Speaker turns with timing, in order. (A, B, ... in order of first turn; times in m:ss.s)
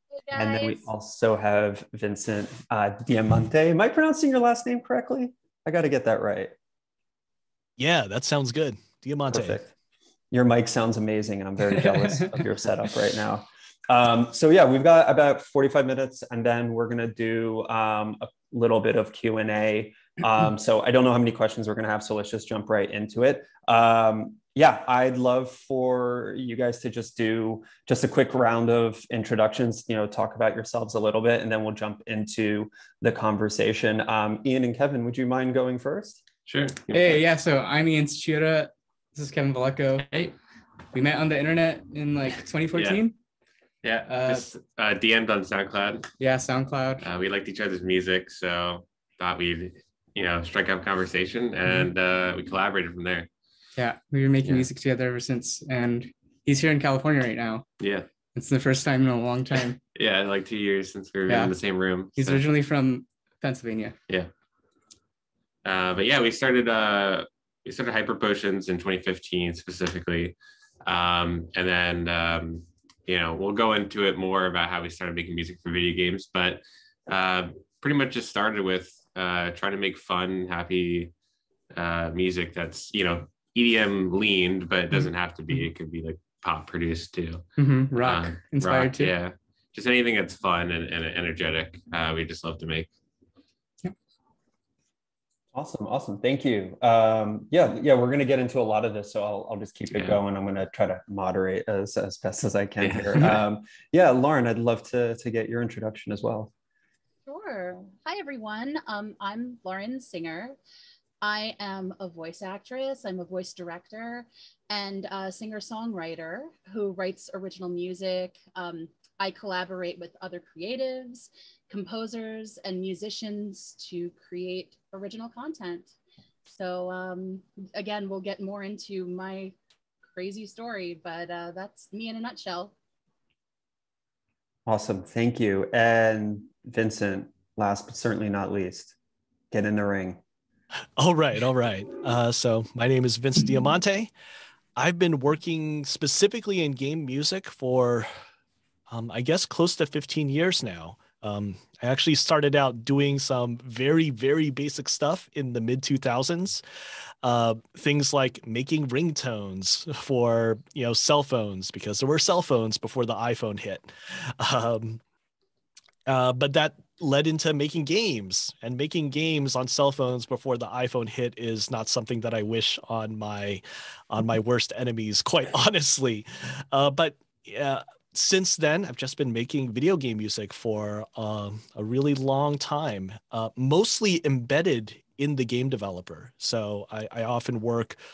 0:00.2-0:00.8 A
0:00.3-0:06.5 B
0:07.8-0:09.6 C
0:09.3-0:09.7 B
0:10.3-0:36.2 B
0:36.5-0:37.2 D
0:36.9-0:40.1 E
0:40.0-0:40.4 D
0:40.9-0:43.2 E
0:42.7-0:43.0 D
0:43.8-0:46.1 D
0:44.1-0:44.4 E
0:46.2-0:47.1 E
0:47.0-0:53.3 D
0:53.8-0:57.6 E
0:57.8-0:58.1 D
0:58.4-0:59.8 E
1:00.0-1:02.4 D
1:01.3-1:01.5 E
1:02.2-1:04.0 E
1:05.6-1:21.1 D
1:21.7-1:32.9 D
1:27.6-1:29.1 E
1:35.5-1:46.5 B
1:39.9-1:40.2 D
1:42.8-1:43.4 D
1:47.3-1:50.6 A
1:51.2-2:09.6 A
2:10.1-2:12.7 A
2:14.7-2:18.9 B
2:19.5-2:20.2 B
2:21.0-2:24.1 C
2:24.8-2:28.1 C
2:28.9-2:36.6 C
2:37.2-2:45.0 C
2:46.1-3:08.0 C